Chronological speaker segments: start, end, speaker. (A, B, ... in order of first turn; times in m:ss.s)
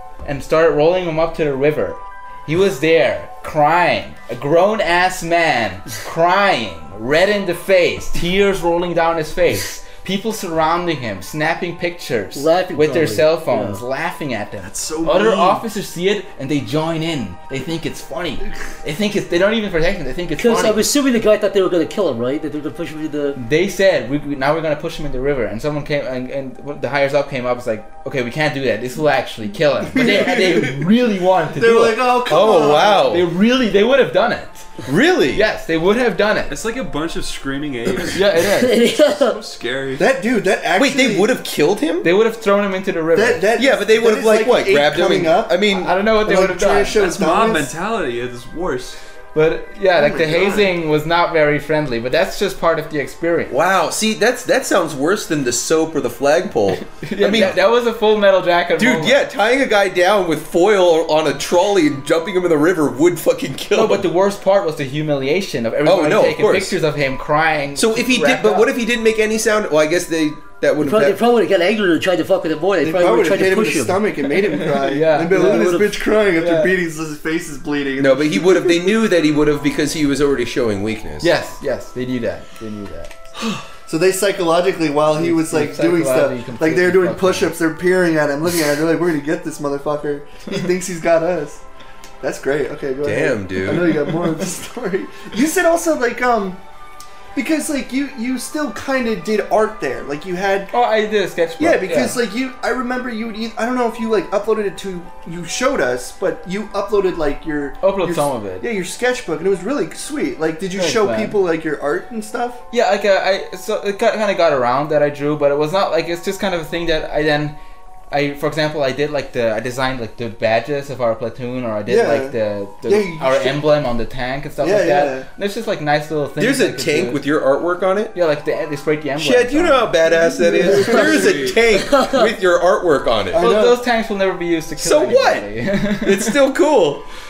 0:00.2-0:20.9 A
0:12.3-0:13.8 B
0:14.6-0:15.6 C
0:20.4-0:23.4 B
0:23.3-0:32.1 A
0:29.9-0:30.8 C
0:31.5-0:33.2 C
0:32.3-0:33.2 D
0:33.0-0:34.7 A
0:34.8-0:35.4 D
0:35.3-0:36.5 A
0:36.5-0:40.0 E
0:38.1-0:38.8 A
0:38.6-0:39.4 B
0:40.0-0:41.3 C
0:40.7-0:42.1 D
0:42.0-0:43.4 A
0:43.1-0:47.7 C
0:43.6-0:45.9 D
0:45.7-0:47.0 A
0:47.0-0:49.0 E
0:49.3-0:53.6 A
0:50.0-0:50.7 C
0:53.5-0:57.6 D
0:56.8-0:59.2 A
0:58.8-1:04.0 D
1:03.7-1:08.7 A
1:05.8-1:06.8 D
1:07.7-1:11.2 D
1:10.8-1:14.0 B
1:12.8-1:19.0 C
1:14.3-1:16.7 A
1:18.0-1:21.3 D
1:21.2-1:23.3 A
1:23.8-1:31.6 C
1:25.1-1:27.6 A
1:32.2-1:36.6 C
1:33.0-1:34.2 D
1:37.3-1:40.7 C
1:40.7-1:42.2 A
1:41.6-1:52.6 C
1:47.8-1:48.7 A
1:50.7-1:51.4 A
1:52.7-1:57.6 A
1:58.1-2:07.2 A
2:01.9-2:03.6 C
2:04.6-2:05.3 C
2:06.4-2:08.1 D
2:08.1-2:10.0 A
2:09.2-2:13.4 D
2:10.1-2:11.6 C
2:10.8-2:11.6 E
2:11.7-2:12.3 B
2:13.3-2:13.8 C
2:13.3-2:16.4 A
2:14.8-2:15.5 D
2:16.0-2:17.0 D